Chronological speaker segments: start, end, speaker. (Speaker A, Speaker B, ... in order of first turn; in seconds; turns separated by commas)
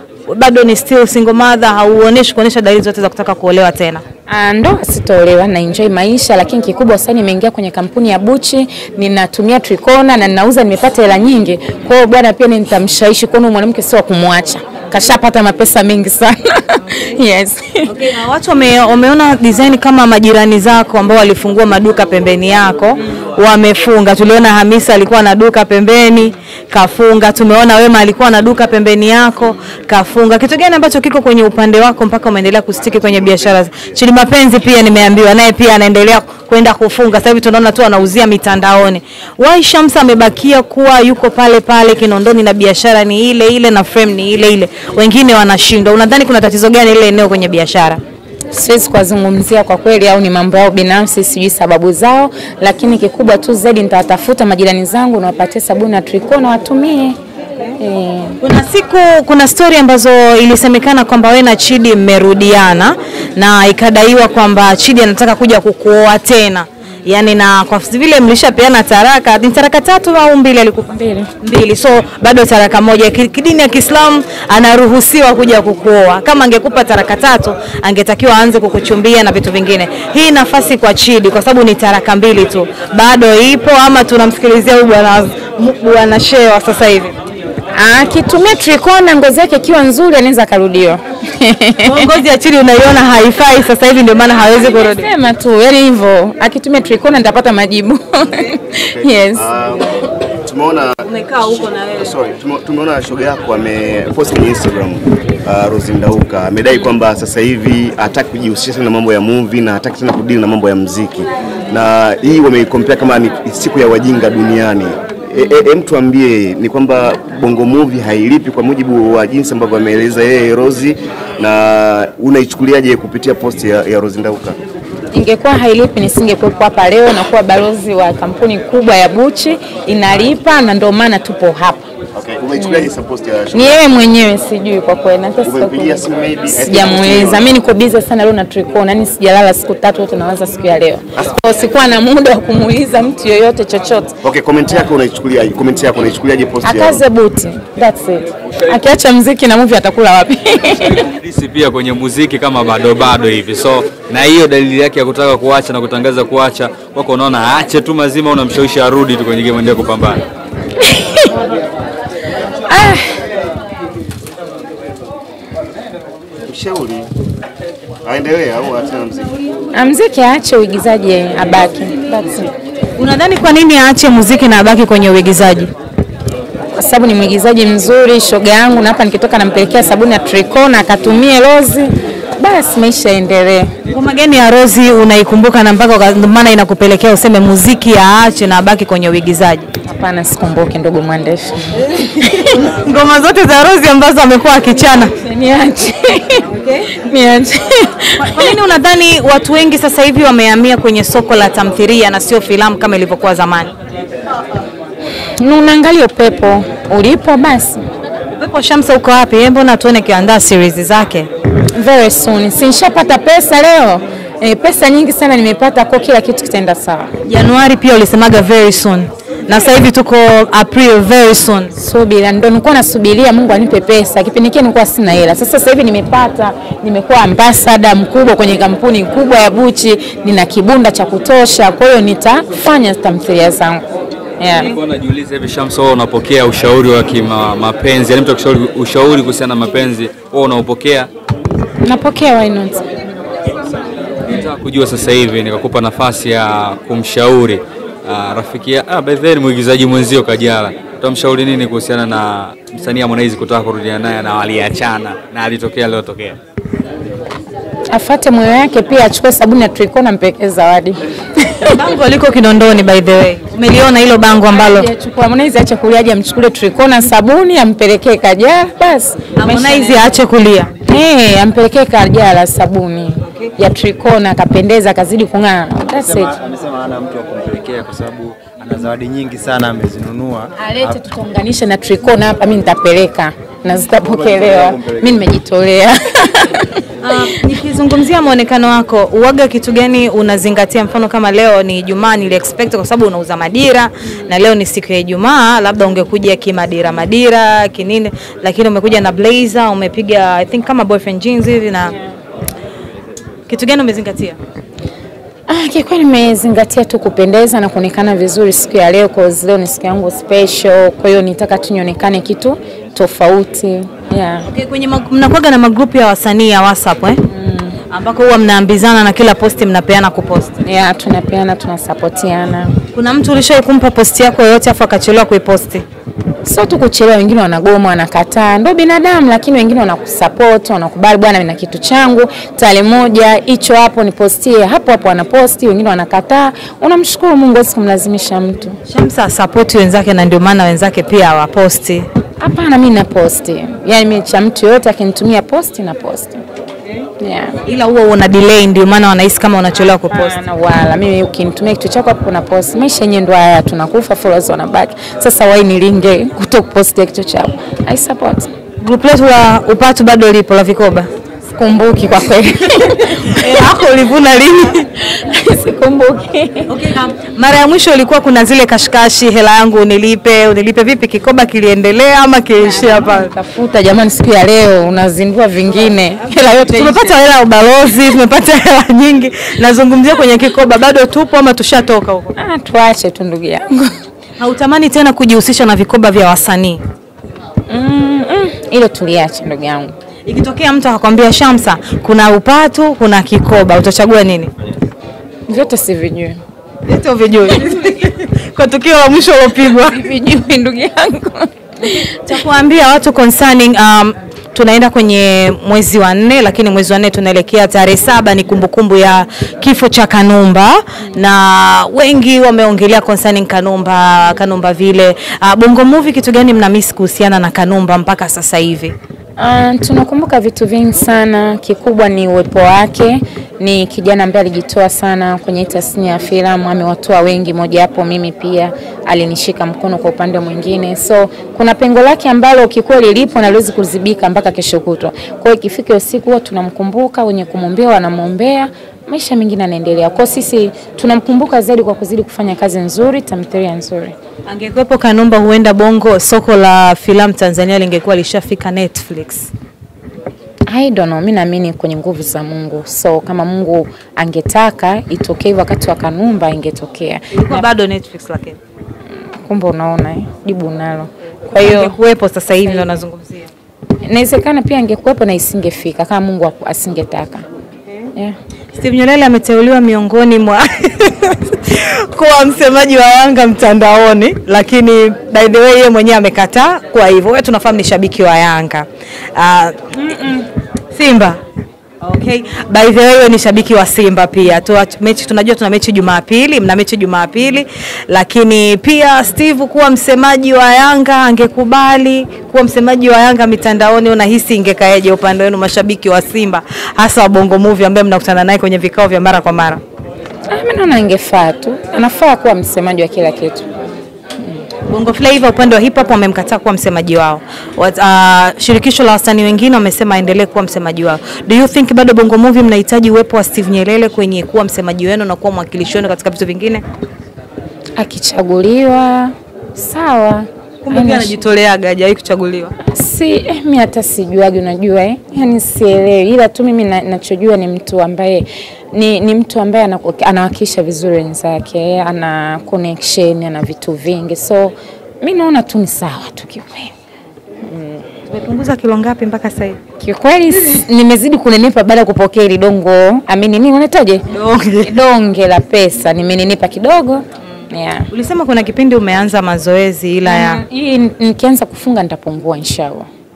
Speaker A: 0.3-4.0, Speaker B: 4.3-17.9, Speaker A: 17.8-48.0, Speaker B: 48.5-57.2, Speaker B: 57.8-58.4, Speaker A: 58.4-87.1, Speaker B: 70.9-71.3, Speaker B: 87.7-92.1, Speaker A: 91.8-95.0, Speaker B: 94.8-99.5, Speaker C: 98.9-101.0, Speaker A: 101.0-102.1, Speaker C: 101.9-124.6, Speaker B: 125.1-131.9, Speaker C: 132.2-133.9, Speaker B: 132.6-132.9, Speaker B: 133.5-144.1, Speaker C: 135.4-137.5, Speaker C: 144.2-147.0, Speaker B: 146.6-151.0, Speaker D: 150.8-160.2, Speaker B: 160.8-161.3, Speaker B: 162.7-163.1, Speaker C: 166.4-167.1, Speaker C: 168.0-169.3, Speaker B: 169.7-172.5, Speaker A: 172.9-175.7, Speaker B: 176.8-183.7, Speaker A: 183.9-189.7, Speaker B: 189.8-192.5, Speaker A: 192.5-195.1, Speaker B: 195.1-196.4, Speaker B: 197.0-198.5, Speaker A: 198.2-203.7, Speaker B: 205.4-207.8, Speaker A: 208.4-211.3, Speaker B: 211.8-217.1, Speaker A: 217.2-221.7, Speaker B: 221.8-233.8, Speaker B: 234.4-234.8, Speaker D: 234.6-241.1, Speaker B: 241.8-242.8, Speaker D: 244.2-256.4, Speaker B: 257.9-261.7, Speaker A: 261.6-264.9, Speaker B: 264.5-270.1, Speaker A: 269.4-270.7, Speaker B: 270.8-276.3, Speaker A: 273.2-273.5, Speaker E: 275.9-280.9, Speaker B: 280.6-286.8, Speaker E: 284.0-285.1, Speaker A: 287.0-301.9, Speaker A: 303.5-304.4, Speaker B: 305.5-314.5, Speaker A: 314.4-317.2, Speaker B: 317.3-317.8, Speaker A: 317.9-320.5, Speaker B: 320.6-322.8, Speaker A: 322.9-325.8, Speaker B: 326.4-338.8, Speaker A: 338.9-342.1, Speaker B: 342.4-346.4, Speaker B: 347.2-347.6, Speaker A: 347.6-350.4, Speaker B: 350.0-358.5, Speaker A: 358.8-361.1, Speaker B: 361.5-363.7, Speaker A: 363.0-364.9, Speaker B: 365.0-366.7, Speaker A: 366.7-373.3, Speaker B: 372.6-377.2, Speaker A: 376.7-382.3, Speaker B: 382.4-383.9, Speaker A: 384.4-386.8, Speaker B: 387.7-389.9, Speaker A: 390.2-394.5, Speaker B: 395.5-396.4, Speaker A: 396.9-400.0, Speaker B: 399.9-401.5, Speaker A: 401.9-418.9, Speaker B: 419.4-444.1, Speaker A: 444.5-449.5, Speaker B: 450.7-457.6, Speaker A: 457.3-458.6, Speaker B: 459.4-462.0, Speaker A: 461.5-463.5, Speaker B: 462.6-462.9, Speaker B: 464.1-467.4, Speaker A: 468.7-481.4, Speaker B: 480.1-480.4, Speaker A: 482.0-499.8, Speaker B: 500.5-503.6, Speaker A: 504.9-516.8, Speaker B: 518.0-521.3, Speaker A: 520.8-522.7, Speaker B: 522.9-536.9, Speaker B: 537.6-538.0, Speaker A: 538.2-539.8, Speaker B: 540.0-544.2, Speaker A: 544.3-544.9, Speaker B: 544.8-548.1, Speaker A: 548.1-550.6, Speaker B: 550.2-553.1